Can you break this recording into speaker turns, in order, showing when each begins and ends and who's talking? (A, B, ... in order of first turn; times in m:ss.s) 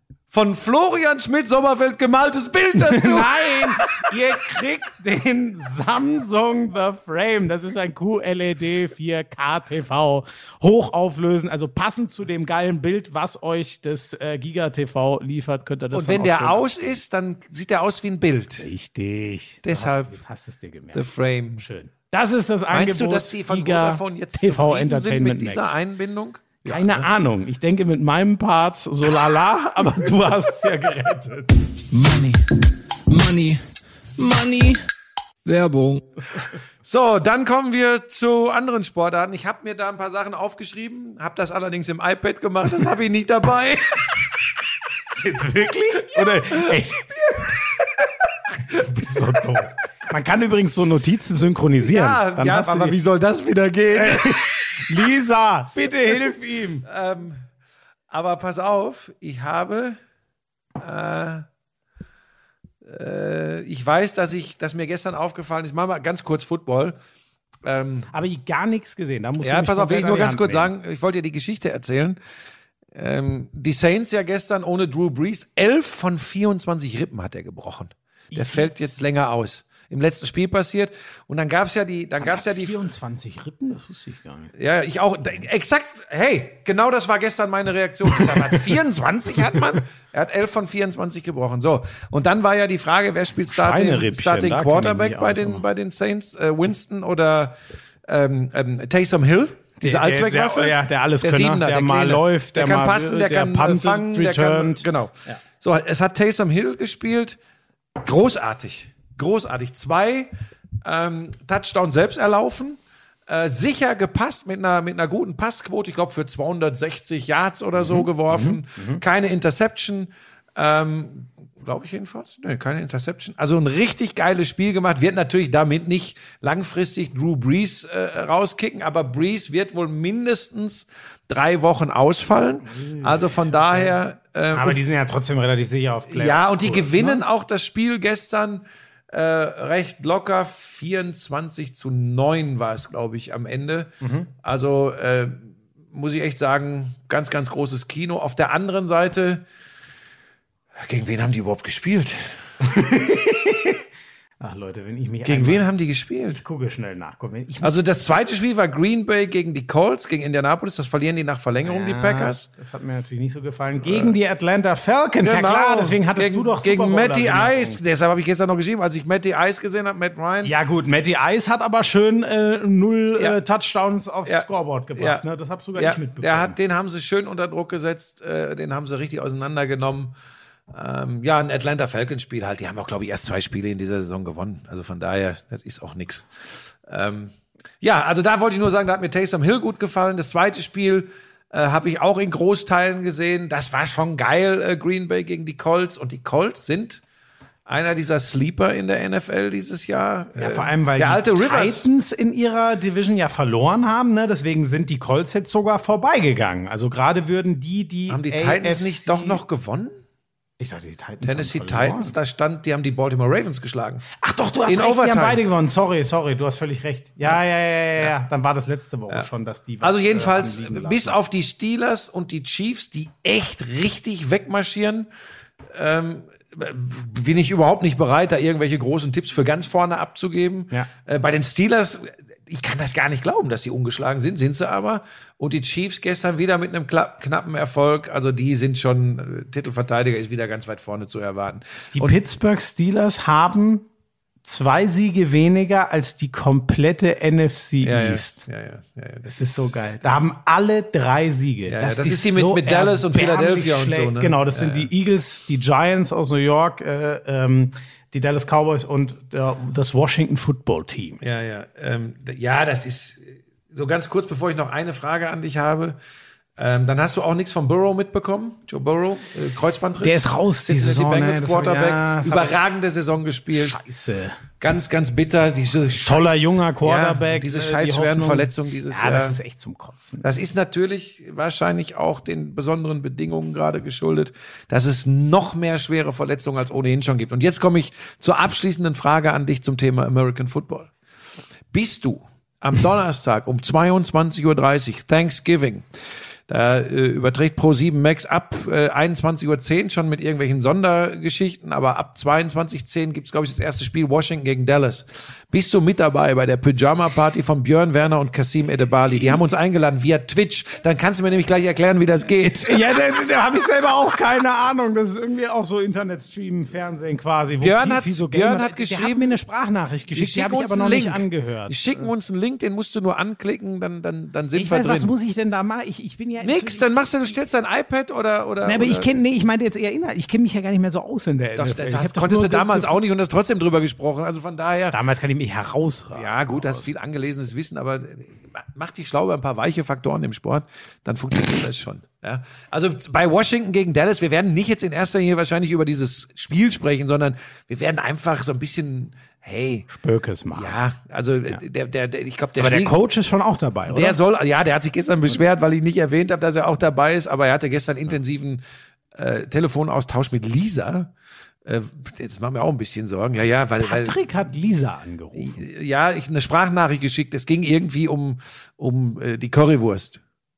0:00.3-0:04.6 A
0:02.8-0:16.9 B
0:15.9-0:18.6 A
0:18.6-0:21.0 B
0:19.6-0:20.1 A
0:20.9-0:21.6 A
0:21.6-0:25.8 B
0:22.7-0:27.1 A
0:26.6-0:31.5 B
0:31.9-0:33.6 C
0:34.2-0:34.8 C
0:35.4-0:36.0 C
0:36.8-0:44.3 A
0:45.1-0:47.7 B
0:46.3-0:46.7 A
0:48.7-0:53.0 B
0:48.7-0:49.5 A
0:51.8-0:54.4 A
0:53.9-0:56.9 B
0:56.8-0:57.4 A
0:58.1-1:00.0 A
1:00.8-1:01.5 A
1:02.8-1:07.0 A
1:07.6-1:08.1 A
1:08.1-1:10.7 B
1:09.4-1:12.2 A
1:12.9-1:22.9 A
1:18.3-1:18.9 B
1:22.2-1:24.5 B
1:24.5-1:47.4 A
1:33.5-1:35.6 B
1:39.8-1:45.4 B
1:48.0-2:14.8 A
1:57.8-1:59.0 B
2:12.7-2:14.0 B
2:14.5-2:17.2 B
2:16.1-2:29.4 A
2:24.0-2:24.3 B
2:30.8-2:32.4 A
2:32.6-2:33.8 B
2:34.4-2:35.7 B
2:35.2-2:36.4 A
2:36.4-2:37.8 B
2:37.6-2:42.5 A
2:41.6-2:47.8 B
2:43.8-2:44.2 A
2:45.2-2:50.5 A
2:50.4-2:56.5 B
2:55.0-2:55.2 A
2:55.8-3:00.1 A
3:00.7-3:06.3 A
3:06.8-3:17.0 A
3:17.7-3:21.9 A
3:20.4-3:29.4 B
3:28.1-3:29.9 A
3:30.6-3:32.1 B
3:31.2-3:34.0 A
3:34.2-3:41.1 B
3:34.7-3:35.4 A
3:39.8-3:45.1 A
3:45.7-4:02.2 A
4:01.9-4:03.9 B
4:04.4-4:08.4 B
4:07.8-4:10.0 A
4:09.2-4:21.2 B
4:11.7-4:14.9 A
4:21.2-4:26.0 A
4:26.6-4:33.8 A
4:30.0-4:32.5 B
4:33.5-4:34.4 B
4:34.6-4:39.4 A
4:36.0-4:40.2 B
4:40.2-4:50.9 A
4:51.7-4:55.9 A
4:56.5-5:12.8 A
5:12.6-5:22.0 B
5:17.6-5:19.4 A
5:20.1-5:25.1 A
5:24.6-5:26.9 B
5:26.4-5:29.1 A
5:28.6-5:33.0 B
5:31.5-5:35.0 A
5:34.9-5:36.8 B
5:36.1-5:49.9 A
5:49.9-5:50.7 B
5:50.5-5:53.0 A
5:52.6-5:54.2 B
5:53.9-5:58.6 A
5:59.1-6:01.1 A
6:01.6-6:04.2 A
6:03.8-6:05.6 B
6:05.3-6:10.2 A